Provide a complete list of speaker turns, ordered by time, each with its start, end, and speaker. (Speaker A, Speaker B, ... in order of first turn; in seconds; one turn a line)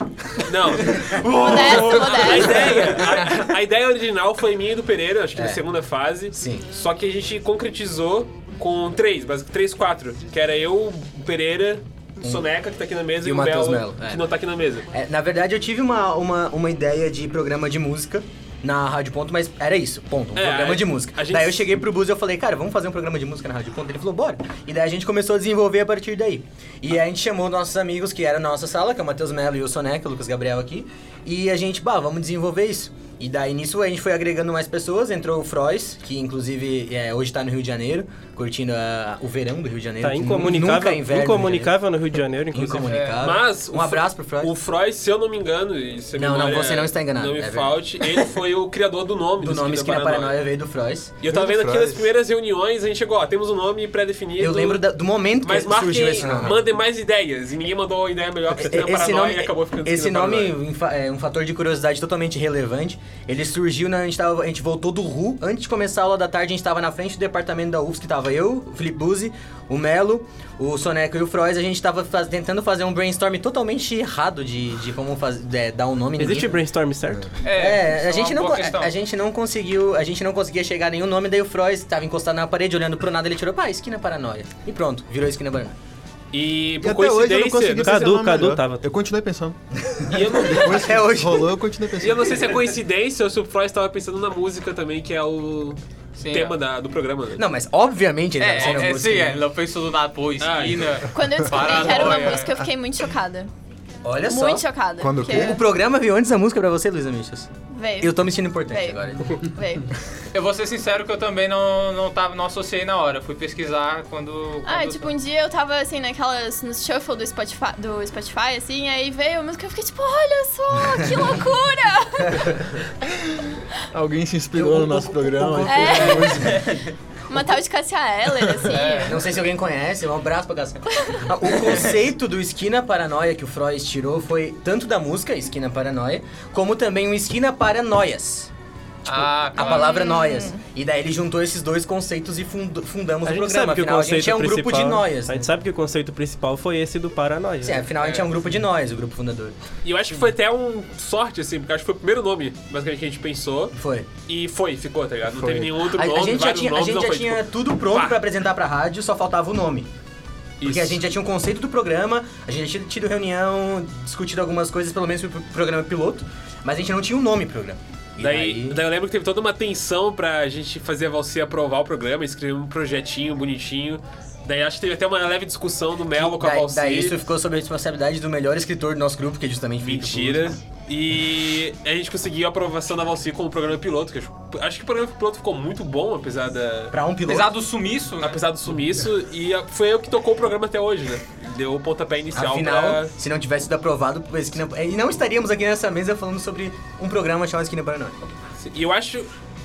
Speaker A: 0.4-14.9
Speaker B: 1.4-2.8
Speaker C: 1.4-3.0
Speaker D: 5.3-5.6
Speaker D: 6.3-6.7
Speaker D: 12.2-12.5
Speaker D: 13.2-14.2
Speaker D: 14.9-41.7
Speaker A: 20.4-21.8
Speaker E: 40.0-42.9
Speaker D: 42.5-44.5
Speaker C: 42.9-43.2
Speaker A: 43.2-50.4
Speaker D: 46.1-47.8
Speaker D: 49.4-51.2
Speaker A: 51.2-54.9
Speaker F: 51.3-52.1
Speaker D: 54.4-56.6
Speaker A: 55.4-60.6
Speaker D: 58.5-76.6
Speaker E: 76.2-77.3
Speaker C: 77.4-78.9
Speaker D: 77.5-85.8
Speaker A: 86.3-88.2
Speaker F: 86.8-89.6
Speaker E: 87.8-88.9
Speaker D: 89.9-91.5
Speaker A: 90.1-91.0
Speaker F: 90.6-92.6
Speaker A: 92.0-97.4
Speaker C: 96.2-96.5
Speaker D: 97.4-99.4
Speaker C: 98.4-102.5
Speaker A: 100.4-101.0
Speaker B: 101.1-103.5
Speaker D: 104.0-104.7
Speaker B: 104.3-105.6
Speaker F: 105.0-105.6
Speaker D: 105.2-109.5
Speaker B: 107.7-109.9
Speaker C: 110.3-115.1
Speaker B: 114.7-122.6
Speaker D: 120.9-121.3
Speaker F: 123.9-126.7
Speaker D: 124.5-126.9
Speaker B: 125.7-126.5
Speaker B: 127.3-129.2
Speaker C: 128.7-129.2
Speaker D: 129.1-138.5
Speaker C: 139.1-139.9
Speaker D: 139.1-145.5
Speaker B: 139.6-140.6
Speaker E: 143.3-147.9
Speaker D: 147.6-149.6
Speaker A: 148.0-148.3
Speaker A: 149.8-153.7
Speaker D: 153.7-154.1
Speaker A: 154.3-158.2
Speaker D: 155.4-159.9
Speaker A: 160.6-161.1
Speaker D: 160.6-168.8
Speaker A: 168.2-177.2
Speaker D: 176.1-180.6
Speaker A: 179.8-186.9
Speaker D: 186.9-187.5
Speaker C: 187.3-188.4
Speaker A: 188.2-193.1
Speaker D: 192.3-198.3
Speaker A: 198.6-199.3